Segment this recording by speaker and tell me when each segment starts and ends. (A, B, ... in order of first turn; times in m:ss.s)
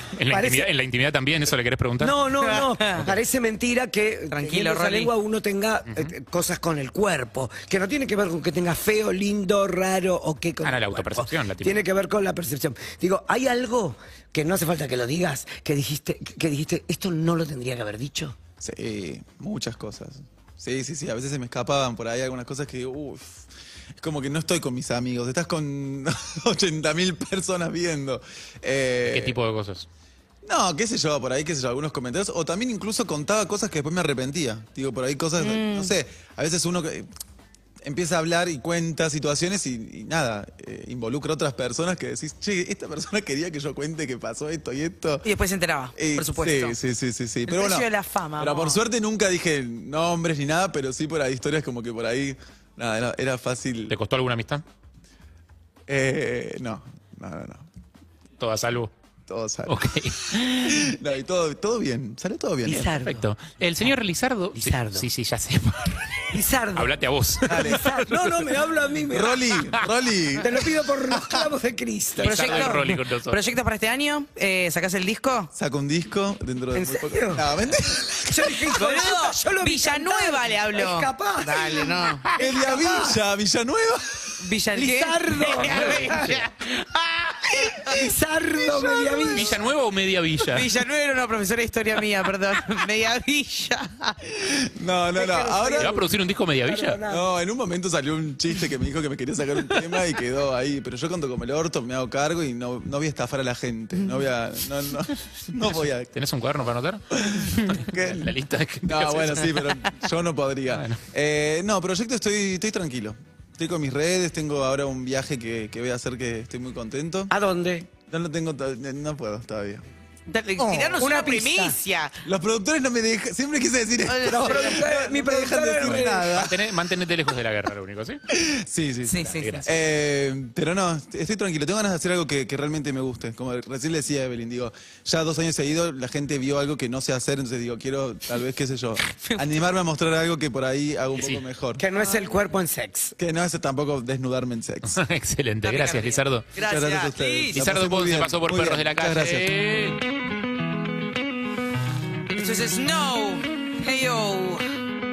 0:00.2-0:02.2 A
0:00.3-0:00.7 B
0:02.0-0:18.4 B
0:02.4-0:03.1 C
0:04.3-0:05.1 C
0:05.9-0:06.1 A
0:10.6-0:11.8 A
0:18.6-0:29.4 D
0:29.0-0:29.9 A
0:30.4-0:37.1 D
0:35.4-0:35.9 C
0:37.8-0:45.3 D
0:45.2-0:46.8 C
0:46.0-0:47.9 D
0:47.5-0:48.8 C
0:48.4-0:54.0 D
0:53.9-0:54.6 A
0:55.9-0:57.7 D
0:58.4-0:58.9 A
0:59.3-1:03.0 D
0:59.7-1:01.0 A
1:02.7-1:03.3 B
1:03.0-1:08.4 A
1:04.5-1:05.1 B
1:06.3-1:06.9 B
1:07.5-1:07.9 D
1:07.5-1:09.6 B
1:09.1-1:10.6 D
1:10.4-1:13.0 B
1:12.2-1:15.5 C
1:12.2-1:13.4 A
1:15.5-1:18.7 D
1:16.7-1:23.2 B
1:18.8-1:22.3 C
1:22.4-1:24.4 D
1:24.4-1:27.8 C
1:24.8-1:26.5 B
1:25.6-1:26.5 A
1:27.8-1:29.6 B
1:29.2-1:29.5 C
1:29.3-1:30.7 A
1:30.5-1:34.2 C
1:34.3-1:36.0 D
1:35.2-1:36.1 B
1:35.8-1:37.0 A
1:36.6-1:37.2 B
1:37.1-1:46.1 D
1:46.1-1:49.7 A
1:47.1-1:48.3 D
1:48.8-1:57.3 D
1:50.7-1:51.0 A
1:57.3-1:57.9 B
1:58.1-1:59.8 D
2:00.3-2:02.2 C
2:00.6-2:00.9 D
2:01.0-2:01.8 B
2:02.2-2:06.6 D
2:04.1-2:04.9 C
2:04.3-2:06.4 B
2:05.8-2:08.2 A
2:08.3-2:21.8 D
2:09.1-2:09.6 C
2:09.2-2:09.8 A
2:19.2-2:19.6 C
2:21.8-2:23.2 B
2:23.2-2:25.0 D
2:24.9-2:26.5 A
2:25.6-2:27.6 C
2:26.6-2:29.5 D
2:27.5-2:30.0 A
2:32.3-2:34.6 C